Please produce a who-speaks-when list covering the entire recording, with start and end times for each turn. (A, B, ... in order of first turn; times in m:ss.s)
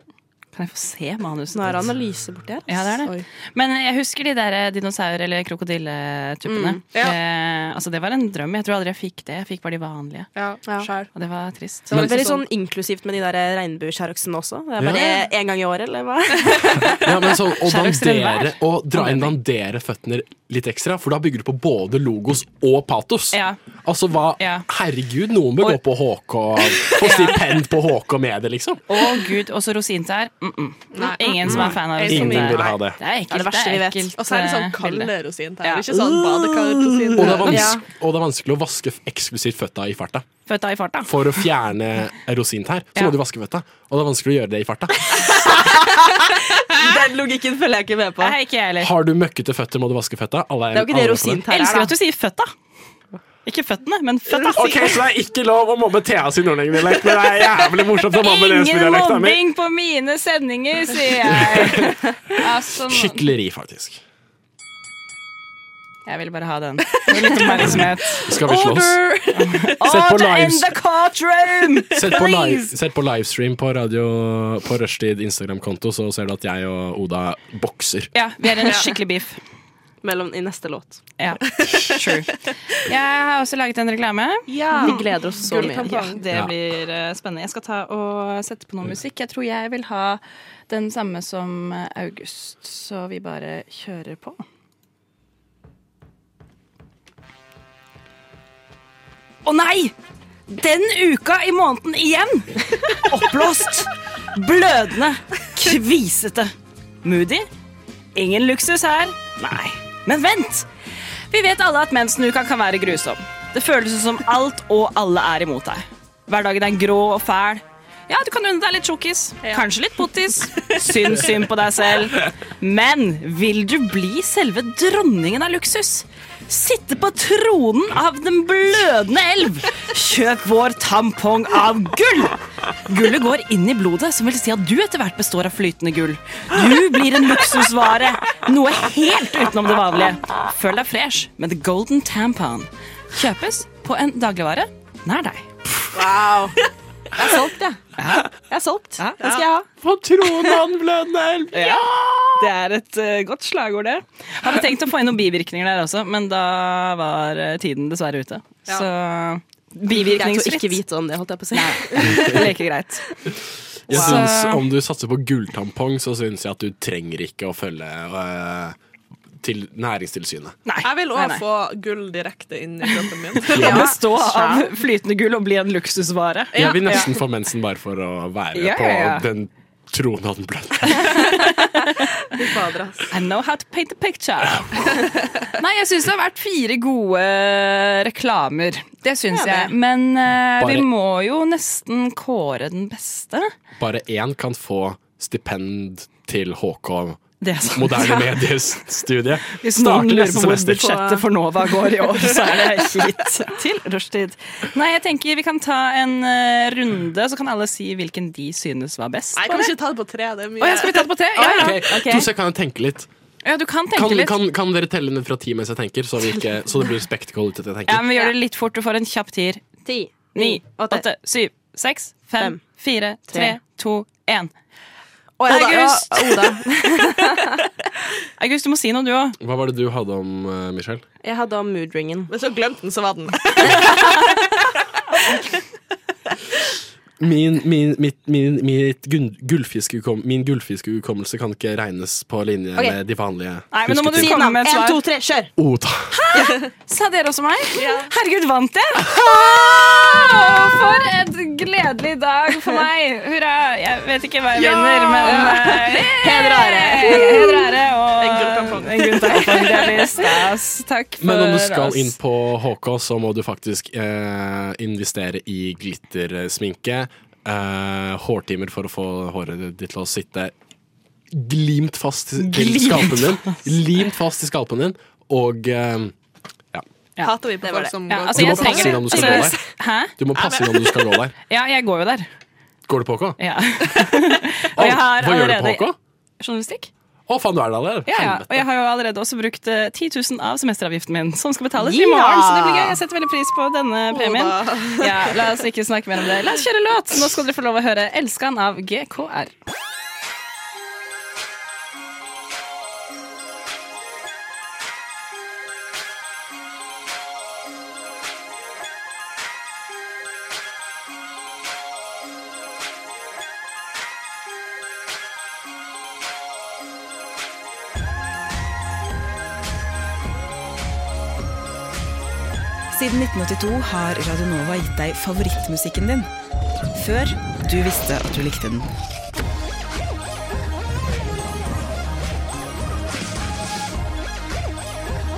0:00.5-0:01.9 A
0:01.5-0:03.1 B
0:02.7-0:10.3 A
0:06.4-0:06.8 B
0:10.3-0:11.1 C
0:11.0-0:11.9 A
0:11.9-0:17.1 B
0:11.9-0:12.4 C
0:14.8-0:15.1 D
0:16.8-0:29.0 D
0:17.6-0:19.4 A
0:23.3-0:23.6 A
0:24.4-0:24.6 A
0:26.9-0:27.4 A
0:28.9-0:35.1 A
0:30.9-0:32.7 C
0:31.4-0:33.0 D
0:32.4-0:34.1 B
0:34.2-0:37.6 C
0:35.6-0:37.8 B
0:37.2-0:40.2 D
0:40.5-0:41.2 A
0:41.1-0:45.2 D
0:45.1-0:48.3 B
0:48.2-0:48.9 A
0:48.8-0:51.4 D
0:50.7-0:51.9 B
0:51.5-0:52.5 A
0:53.4-0:55.0 A
0:54.4-0:59.4 D
0:58.2-1:03.3 A
1:01.3-1:02.0 D
1:02.8-1:04.0 D
1:06.1-1:08.3 A
1:07.6-1:09.1 D
1:08.3-1:09.6 B
1:09.3-1:12.7 A
1:09.8-1:10.8 D
1:11.9-1:18.1 D
1:18.1-1:19.4 A
1:20.0-1:21.0 B
1:21.2-1:34.4 A
1:21.6-1:22.0 B
1:24.5-1:26.2 C
1:24.7-1:26.0 B
1:39.4-1:39.9 A
1:40.5-1:46.5 A
1:47.0-1:47.5 A
1:48.1-1:50.7 A
1:51.3-2:25.5 A
2:25.9-2:26.6 B
2:27.1-2:29.7 B
2:28.0-2:28.3 A
2:29.0-2:29.4 A
2:29.8-2:32.4 D
2:31.5-2:40.8 A
2:39.8-2:42.5 B
2:41.5-2:43.0 A
2:43.9-2:48.8 D
2:43.9-2:44.6 A
2:43.9-2:44.2 B
2:49.4-2:50.6 D
2:50.6-2:51.4 A
2:50.8-2:53.9 C
2:52.9-2:57.1 A
2:53.5-2:53.9 D
2:53.5-2:54.7 B
2:56.5-3:01.2 D
2:56.6-2:57.0 C
2:58.5-2:59.2 A
3:00.9-3:02.1 A
3:02.3-3:03.0 B
3:03.1-3:13.5 A
3:09.3-3:09.7 B
3:10.6-3:10.9 D
3:13.8-3:21.2 D
3:17.4-3:18.4 A
3:19.5-3:29.7 A
3:20.8-3:21.2 B
3:29.4-3:31.2 C
3:30.6-3:32.1 A
3:31.4-3:32.2 B
3:31.4-3:33.1 D
3:33.4-3:34.4 A
3:33.9-3:38.0 D
3:37.9-3:39.6 A
3:39.8-3:41.0 B
3:40.3-3:44.5 A
3:43.3-3:43.6 B
3:45.4-3:47.6 B
3:45.5-3:46.5 A
3:48.4-3:49.4 A
3:49.4-3:51.0 D
3:51.2-3:52.3 B
3:52.3-3:54.0 C
3:53.6-3:54.4 B
3:57.2-4:04.4 D
4:03.7-4:05.0 A
4:04.1-4:05.5 B
4:05.6-4:06.2 D
4:06.1-4:22.2 A
4:06.3-4:06.7 B
4:07.8-4:08.1 C
4:14.6-4:15.8 C
4:15.2-4:17.7 B
4:18.2-4:20.3 C
4:21.2-4:30.5 D
4:31.3-4:36.1 D
4:32.4-4:33.7 A
4:37.2-4:39.2 C
4:37.6-4:39.6 B
4:38.1-4:40.1 A
4:38.3-4:39.6 D
4:40.2-4:41.3 D
4:40.4-4:40.8 C
4:41.5-4:42.3 A
4:42.9-4:43.4 D
4:43.4-4:46.9 A
4:44.7-4:46.0 D
4:47.3-4:48.6 D
4:48.1-4:59.5 A
4:51.8-4:53.0 B
4:54.1-4:55.1 C
5:22.9-5:26.3 E
5:26.9-5:28.9 E